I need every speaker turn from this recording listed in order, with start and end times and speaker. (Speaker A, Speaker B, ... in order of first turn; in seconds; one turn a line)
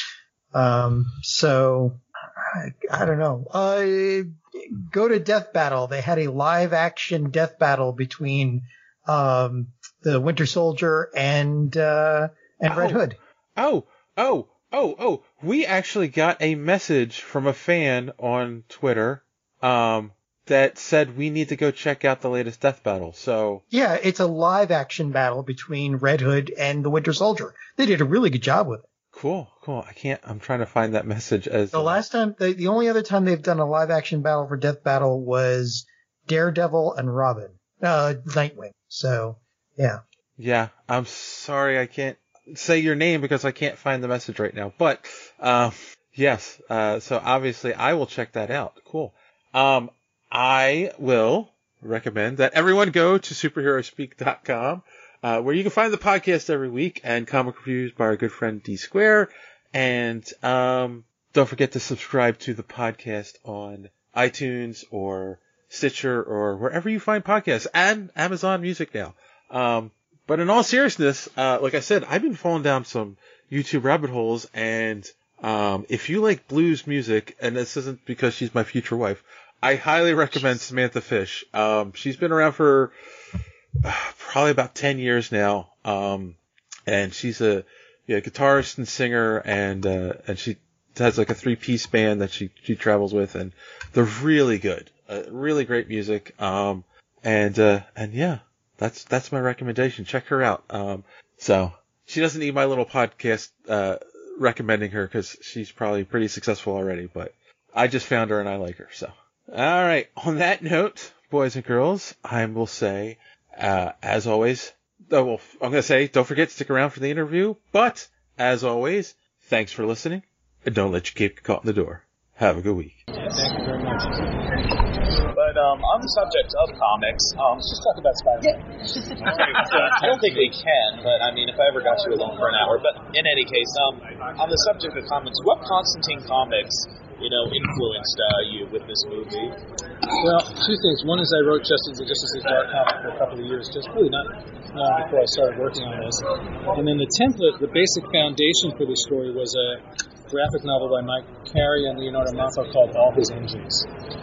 Speaker A: 0.5-13.2
Speaker B: 12.7-13.0
Speaker B: 13.6-23.6
Speaker A: 23.7-28.9
Speaker B: 29.1-32.0
Speaker A: 31.7-40.0
Speaker B: 40.4-82.9
Speaker B: 83.8-86.4
Speaker B: 86.9-123.0
Speaker C: 123.3-124.4
Speaker D: 125.3-128.5
Speaker D: 129.2-139.6
Speaker C: 129.9-130.5
Speaker C: 140.2-153.9